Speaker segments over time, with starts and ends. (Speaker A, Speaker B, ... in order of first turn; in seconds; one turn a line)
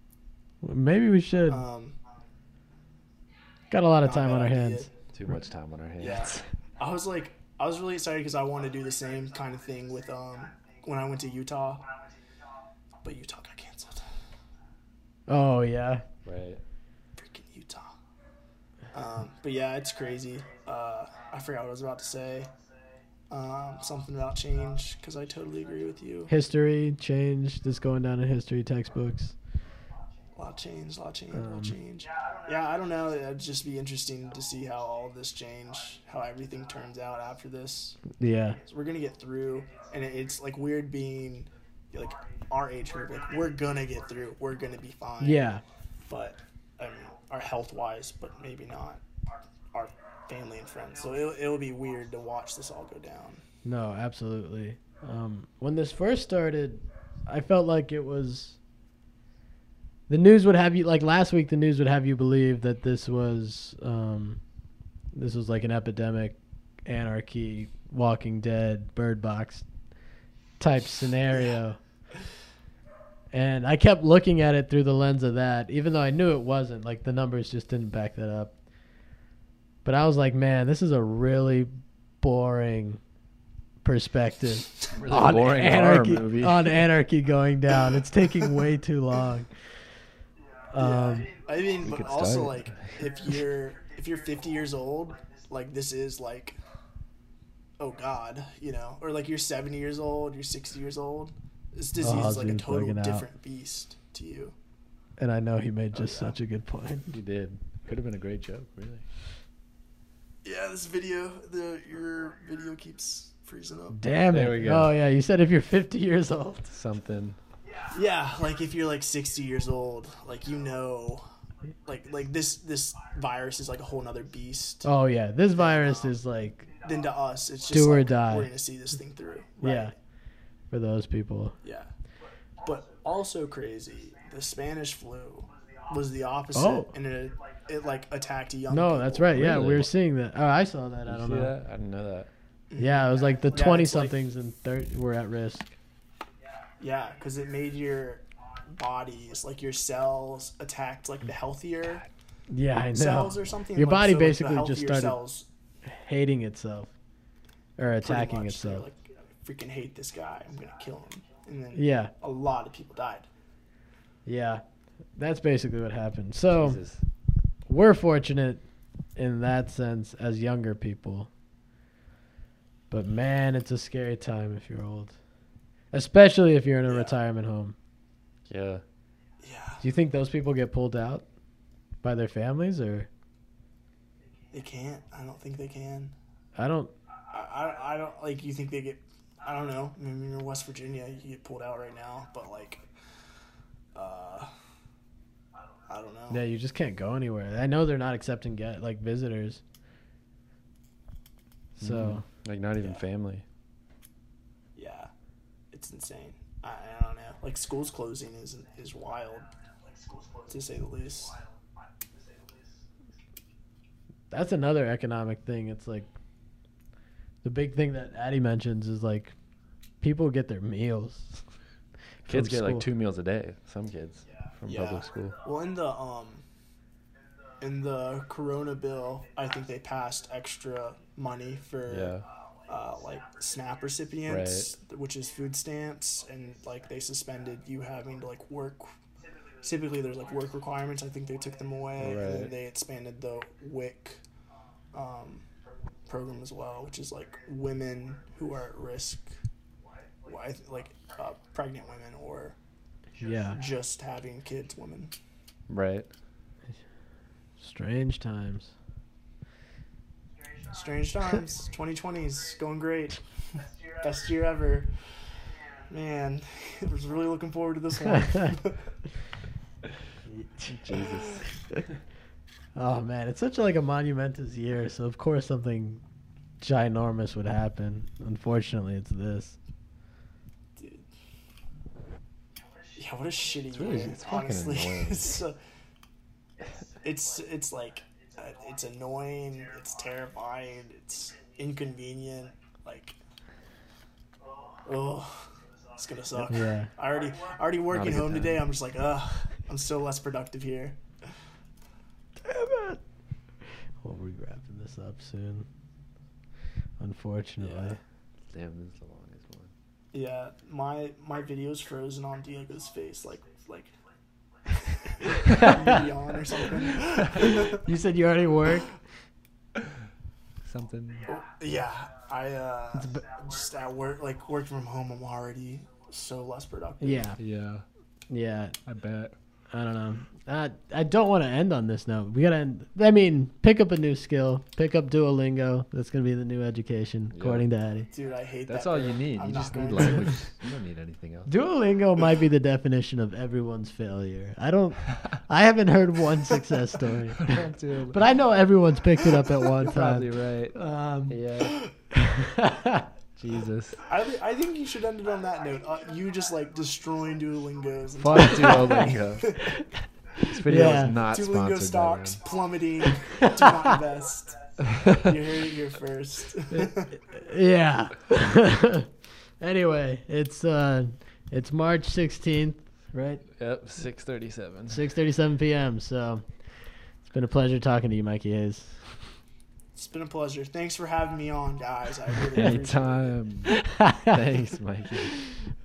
Speaker A: 0.6-1.6
Speaker B: 1.5-2.0
Speaker A: 3.7-4.9
Speaker B: 4.0-4.9
Speaker C: 5.1-6.5
Speaker B: 6.0-11.9
Speaker B: 13.0-14.1
Speaker A: 15.3-16.0
Speaker C: 16.2-16.6
Speaker B: 17.2-17.9
Speaker B: 18.9-22.5
Speaker B: 23.3-26.3
Speaker A: 26.3-29.3
Speaker B: 30.4-38.0
Speaker A: 31.3-31.7
Speaker A: 38.1-38.6
Speaker B: 38.7-45.4
Speaker A: 45.2-45.6
Speaker B: 46.0-49.0
Speaker B: 49.7-53.4
Speaker A: 53.6-58.6
Speaker A: 60.1-64.4
Speaker A: 65.1-69.6
Speaker A: 70.6-71.8
Speaker A: 73.3-78.5
Speaker A: 79.8-83.0
Speaker A: 83.8-89.5
Speaker C: 84.9-86.8
Speaker B: 87.9-88.6
Speaker A: 90.7-91.3
Speaker B: 90.8-96.6
Speaker C: 91.8-93.0
Speaker B: 97.8-104.5
Speaker A: 102.0-103.3
Speaker A: 105.2-107.1
Speaker B: 105.9-106.4
Speaker C: 107.1-109.0
Speaker B: 110.4-114.0
Speaker A: 113.9-116.7
Speaker C: 114.3-114.9
Speaker C: 116.7-117.4
Speaker B: 117.9-121.2
Speaker B: 121.9-124.9
Speaker A: 124.8-126.7
Speaker B: 125.5-126.1
Speaker B: 126.8-129.9
Speaker A: 127.7-128.5
Speaker A: 129.6-129.9
Speaker A: 130.7-131.6
Speaker B: 131.6-131.9
Speaker B: 132.6-139.4
Speaker A: 136.6-136.9
Speaker A: 138.7-141.5
Speaker C: 139.3-139.9
Speaker C: 141.1-142.3
Speaker B: 142.7-144.2
Speaker A: 142.8-145.7
Speaker B: 146.8-152.1
Speaker A: 152.5-155.2
Speaker B: 152.9-155.5
Speaker A: 155.8-156.9
Speaker A: 157.8-158.9
Speaker B: 158.0-163.3
Speaker A: 161.7-162.1
Speaker A: 164.3-164.6
Speaker A: 165.2-166.8
Speaker C: 166.5-167.0
Speaker A: 167.7-168.6
Speaker A: 169.2-171.3
Speaker A: 172.9-175.1
Speaker A: 175.9-177.7
Speaker B: 176.9-177.2
Speaker C: 178.5-178.8
Speaker B: 179.4-179.8
Speaker A: 179.8-181.2
Speaker A: 182.0-183.1
Speaker B: 184.5-186.1
Speaker A: 186.6-186.9
Speaker B: 187.3-192.8
Speaker B: 193.9-194.5
Speaker B: 195.9-196.4
Speaker A: 196.3-199.6
Speaker A: 201.8-202.2
Speaker C: 201.8-203.4
Speaker B: 204.8-205.1
Speaker B: 205.7-209.5
Speaker B: 210.4-211.4
Speaker A: 214.3-216.1
Speaker A: 217.4-219.3
Speaker A: 220.0-221.4
Speaker A: 222.2-222.9
Speaker C: 222.3-225.4
Speaker B: 224.6-226.4
Speaker B: 227.6-238.9
Speaker C: 231.9-232.2
Speaker C: 234.3-234.7
Speaker B: 239.6-244.2
Speaker C: 242.0-242.5
Speaker B: 244.9-245.4
Speaker B: 246.1-249.4
Speaker B: 250.3-252.6
Speaker A: 253.2-253.6
Speaker B: 253.5-255.1
Speaker C: 255.7-256.1
Speaker A: 257.6-258.7
Speaker B: 260.7-263.2
Speaker B: 264.0-264.9
Speaker B: 265.9-268.8
Speaker A: 268.1-268.5
Speaker A: 270.3-270.7
Speaker C: 270.7-271.4
Speaker A: 272.7-276.0
Speaker A: 276.6-279.6
Speaker B: 280.8-281.1
Speaker B: 282.9-285.6
Speaker C: 283.7-285.4
Speaker B: 287.0-293.2
Speaker B: 294.9-301.0
Speaker A: 296.4-296.9
Speaker C: 297.9-298.6
Speaker A: 302.4-303.0
Speaker A: 304.0-305.7
Speaker A: 307.0-308.0
Speaker B: 307.6-308.0
Speaker C: 308.5-309.7
Speaker B: 310.1-313.9
Speaker B: 314.8-317.8
Speaker A: 315.5-316.0
Speaker A: 317.4-318.9
Speaker C: 320.6-321.3
Speaker B: 321.3-327.3
Speaker A: 322.9-323.3
Speaker A: 327.0-327.4
Speaker C: 327.4-327.8
Speaker A: 328.3-328.8
Speaker C: 328.9-329.4
Speaker A: 329.7-338.1
Speaker C: 337.3-337.6
Speaker B: 338.1-340.4
Speaker C: 338.7-341.5
Speaker A: 341.5-351.4
Speaker C: 347.4-348.2
Speaker C: 349.8-350.8
Speaker C: 351.3-351.8
Speaker A: 352.1-353.1
Speaker C: 353.4-354.0
Speaker B: 354.1-359.7
Speaker C: 358.2-359.6
Speaker A: 358.4-359.9
Speaker C: 360.5-362.4
Speaker A: 360.6-361.1
Speaker B: 361.0-367.1
Speaker C: 364.9-365.2
Speaker A: 366.8-373.4
Speaker C: 373.5-375.1
Speaker A: 374.9-376.4
Speaker A: 377.3-379.0
Speaker B: 379.9-383.4
Speaker C: 382.5-385.4
Speaker A: 383.7-384.4